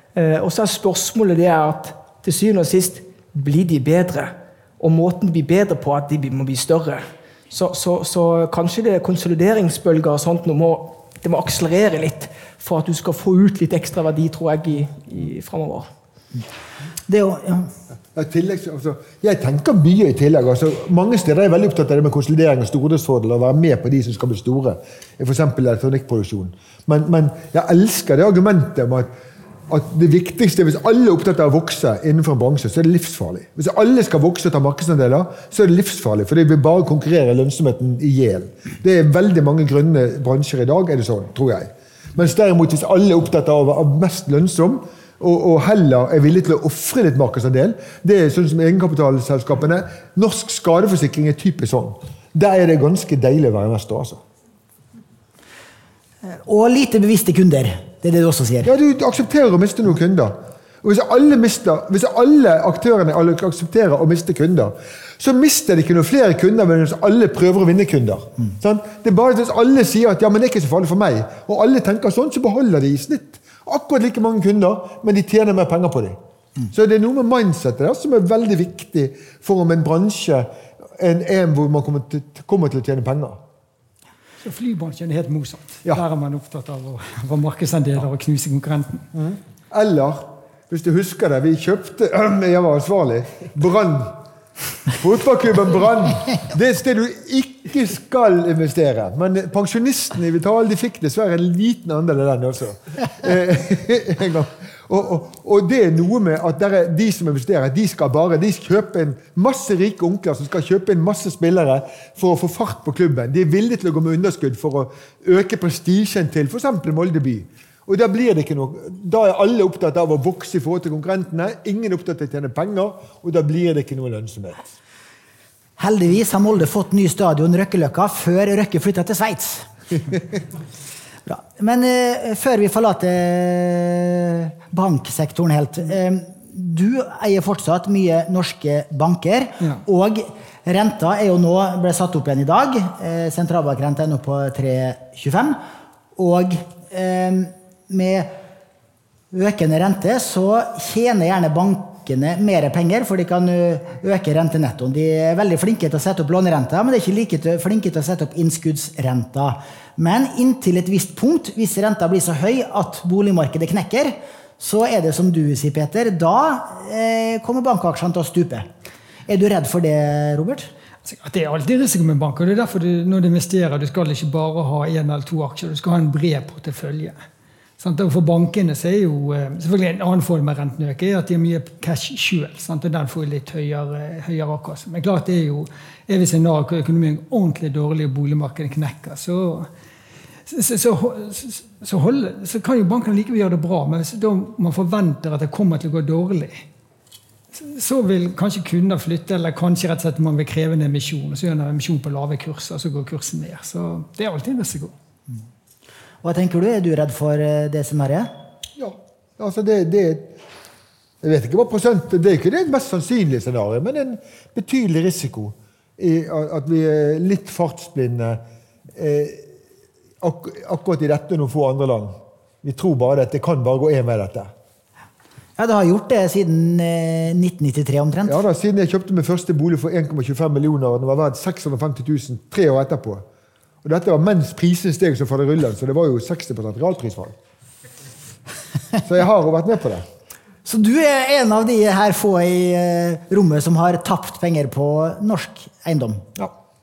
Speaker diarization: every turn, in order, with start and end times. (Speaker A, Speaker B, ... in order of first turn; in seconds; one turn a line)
Speaker A: 0.1-15.9
Speaker B: 17.1-17.7
Speaker C: 18.1-29.1
Speaker C: 29.7-54.2
Speaker B: 56.2-58.7
Speaker C: 58.6-76.2
Speaker C: 76.7-83.4
Speaker D: 84.4-89.1
Speaker C: 89.1-94.2
Speaker C: 94.9-124.6
Speaker B: 125.8-129.7
Speaker B: 131.2-145.6
Speaker B: 146.2-148.3
Speaker B: 149.3-168.7
Speaker B: 169.3-170.7
Speaker D: 171.1-177.2
Speaker D: 177.8-189.7
Speaker D: 190.5-196.7
Speaker D: 197.5-204.9
Speaker B: 206.2-208.3
Speaker C: 208.8-210.4
Speaker C: 211.2-218.4
Speaker C: 218.9-219.5
Speaker C: 220.2-224.5
Speaker B: 225.6-228.4
Speaker C: 228.3-233.2
Speaker C: 233.8-237.3
Speaker C: 239.0-240.1
Speaker B: 240.7-246.3